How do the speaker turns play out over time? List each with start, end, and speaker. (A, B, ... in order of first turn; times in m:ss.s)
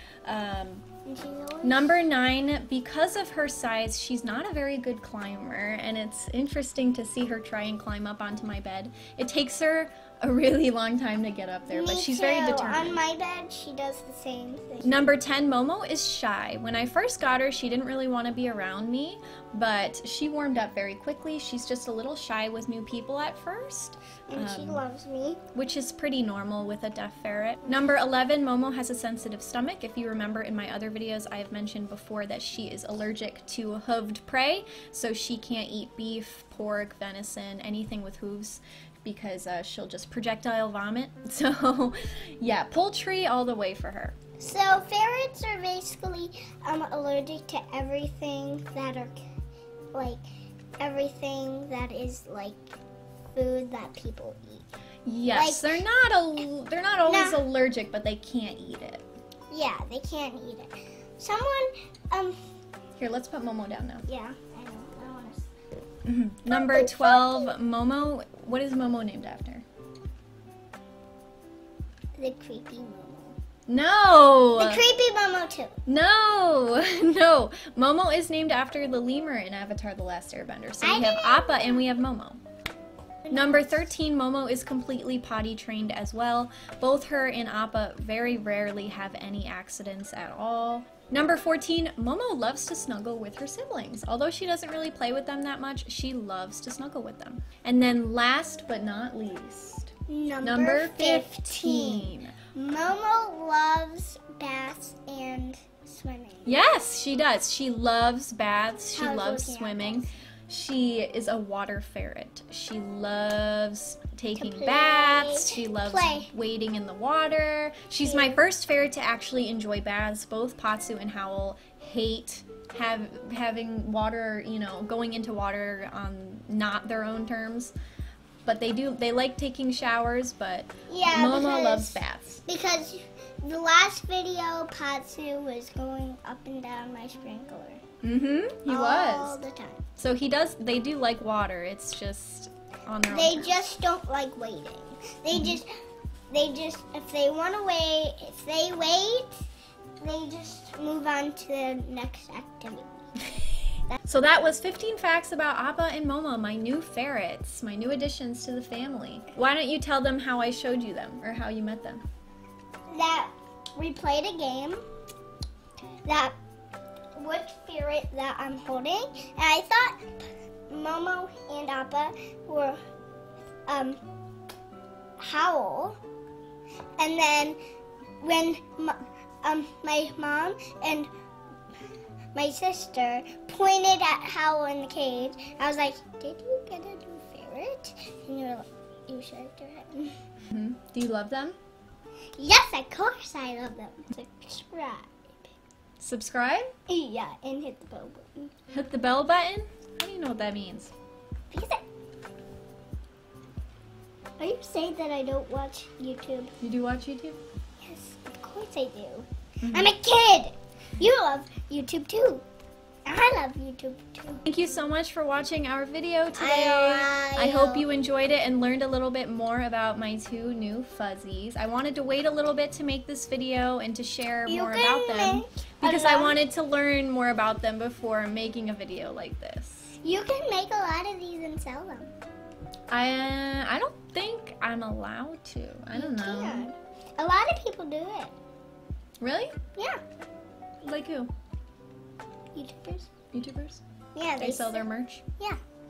0:00.2-0:00.8 A
0:01.0-0:02.0 B
0:01.6-0:13.0 A
0:11.7-0:15.0 B
0:14.8-0:24.8 A
0:24.3-0:25.4 B
0:25.5-0:44.2 A
0:44.4-0:49.2 B
0:49.9-0:50.2 B
0:50.8-0:52.8 B
0:53.3-0:54.6 B
0:55.0-0:59.0 A
0:55.3-0:55.8 B
0:57.0-0:57.4 B
0:59.5-1:02.4 B
1:03.0-1:04.0 A
1:04.0-1:05.5 B
1:06.0-1:09.6 A
1:06.5-1:07.5 B
1:12.2-1:13.4 B
1:13.7-1:14.8 A
1:14.6-1:15.8 B
1:15.8-1:22.4 A
1:20.8-1:21.8 B
1:23.3-1:23.7 B
1:23.3-1:39.9 A
1:40.1-1:46.6 B
1:40.4-1:42.3 A
1:46.4-2:07.7 A
1:48.9-1:50.1 B
1:54.3-1:56.3 B
1:58.0-1:58.4 B
2:08.4-2:12.4 A
2:10.9-2:17.8 B
2:18.0-2:19.4 A
2:18.6-2:19.8 B
2:20.0-2:23.6 A
2:23.1-2:25.7 B
2:25.3-2:25.6 A
2:26.3-2:29.4 B
2:30.0-2:33.0 B
2:34.0-2:42.0 A
2:42.9-2:44.8 B
2:46.0-2:46.3 B
2:47.2-2:52.8 B
2:53.7-2:54.0 B
2:55.2-2:56.0 B
2:57.0-2:57.6 B
2:58.2-3:01.1 B
3:02.3-3:10.2 B
3:10.5-3:11.6 A
3:12.4-3:15.5 B
3:16.0-3:16.7 A
3:16.9-3:18.5 B
3:18.7-3:20.9 A
3:21.5-3:21.8 B
3:24.4-3:26.6 B
3:26.6-3:27.4 A
3:27.8-3:32.4 B
3:29.6-3:29.9 A
3:33.0-3:34.4 B
3:34.4-3:50.0 A
3:36.4-3:37.8 B
3:44.4-3:46.4 B
3:50.0-3:52.1 B
3:52.9-3:56.7 A
3:55.9-3:58.3 B
3:59.2-3:59.5 A
3:59.7-4:00.0 B
4:00.8-4:01.3 A
4:02.5-4:03.1 B
4:03.3-4:03.8 A
4:04.1-4:04.8 B
4:04.4-4:05.2 A